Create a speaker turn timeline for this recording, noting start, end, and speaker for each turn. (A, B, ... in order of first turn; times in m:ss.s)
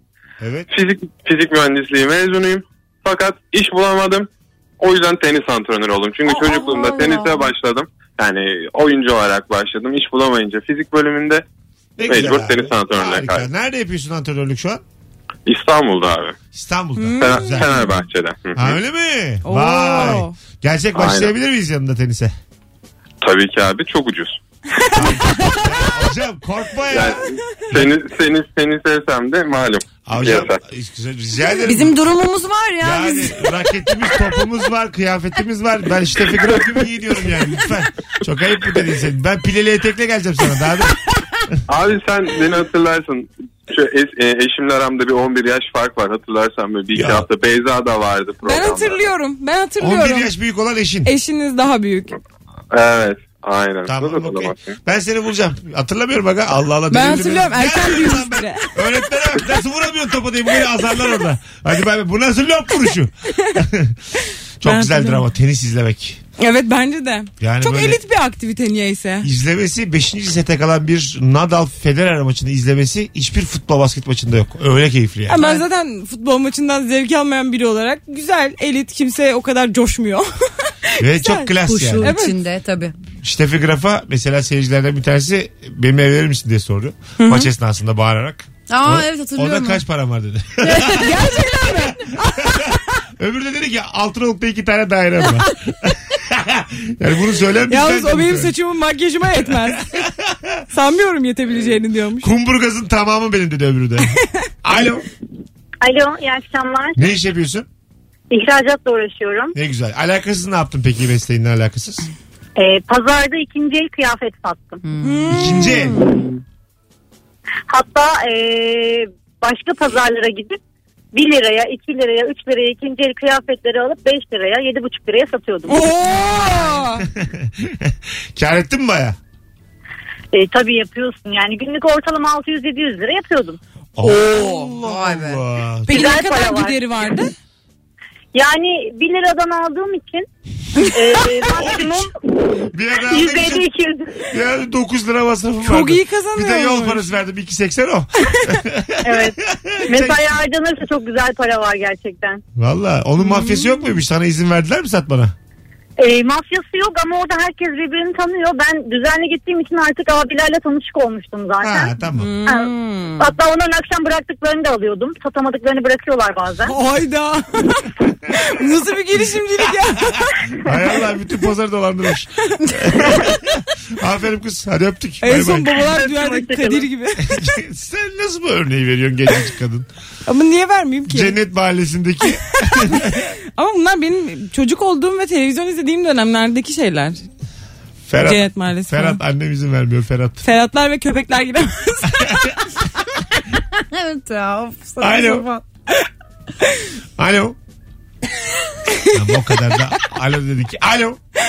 0:00.4-0:00.7 A
0:00.7-0:04.3 B
0:04.8-0:11.4 B
0:06.3-0:07.5 C
0:12.0-0:14.8 A
0:12.0-0:13.5 B
0:15.5-0:16.4 B
0:16.5-0:17.7 A
0:17.0-0:17.8 D
0:17.2-0:18.8 B
0:18.6-0:22.4 A
0:19.4-0:20.4 D
0:21.0-0:21.3 B
0:23.2-0:24.4 B
0:24.8-0:25.8 D
0:24.9-0:27.9 A
0:26.9-0:30.6 B
0:30.1-0:32.0 A
0:31.5-0:33.4 C
0:32.8-0:41.0 A
0:41.7-0:49.1 B
0:46.9-0:47.3 A
0:48.4-0:50.3 D
0:49.8-0:51.1 A
0:51.0-0:52.2 D
0:52.7-0:54.8 B
0:53.9-1:04.0 A
0:56.9-0:58.7 D
1:04.6-1:06.2 A
1:04.6-1:05.2 D
1:06.4-1:09.3 D
1:07.4-1:08.0 A
1:09.2-1:15.4 A
1:15.3-1:20.3 D
1:15.4-1:15.6 C
1:20.9-1:22.4 D
1:21.0-1:22.1 A
1:21.6-1:23.0 C
1:23.2-1:38.6 A
1:27.2-1:27.5 D
1:28.7-1:29.8 C
1:30.6-1:32.8 D
1:37.7-1:39.9 D
1:39.7-1:40.7 A
1:40.7-1:42.3 D
1:42.2-1:45.1 A
1:45.8-1:47.1 E
1:47.0-1:47.7 A
1:48.3-1:49.5 E
1:49.6-1:52.1 A
1:52.6-1:54.8 E
1:54.8-1:56.2 C
1:55.0-1:55.9 D
1:55.3-1:56.1 A
1:57.7-2:00.6 E
2:01.1-2:05.8 E
2:05.7-2:07.0 D
2:07.0-2:09.2 A
2:10.3-2:13.6 E
2:14.0-2:16.0 A
2:14.1-2:14.7 D
2:14.8-2:15.4 C
2:15.9-2:17.3 D
2:15.9-2:17.0 E
2:18.3-2:20.3 E
2:20.8-2:22.1 E
2:21.4-2:22.1 A
2:22.7-2:23.6 A
2:23.1-2:24.2 E
2:24.3-2:30.3 A
2:25.6-2:27.1 D
2:29.0-2:29.4 E
2:29.9-2:32.4 E
2:32.6-2:35.3 A
2:33.2-2:33.8 D
2:36.0-2:41.9 E
2:41.6-2:42.3 A
2:42.2-2:43.2 D
2:42.5-2:46.7 E
2:46.6-2:50.2 D
2:50.6-2:55.8 A
2:55.2-2:57.5 D
2:55.9-2:56.8 E
2:57.2-2:59.9 A
3:00.3-3:01.4 D
3:01.1-3:03.2 A
3:02.7-3:07.2 D
3:08.1-3:10.4 A
3:08.2-3:09.2 D
3:10.4-3:12.5 D
3:12.1-3:12.6 A
3:13.7-3:15.6 C
3:15.0-3:15.5 A
3:17.2-3:17.6 A
3:19.1-3:21.2 A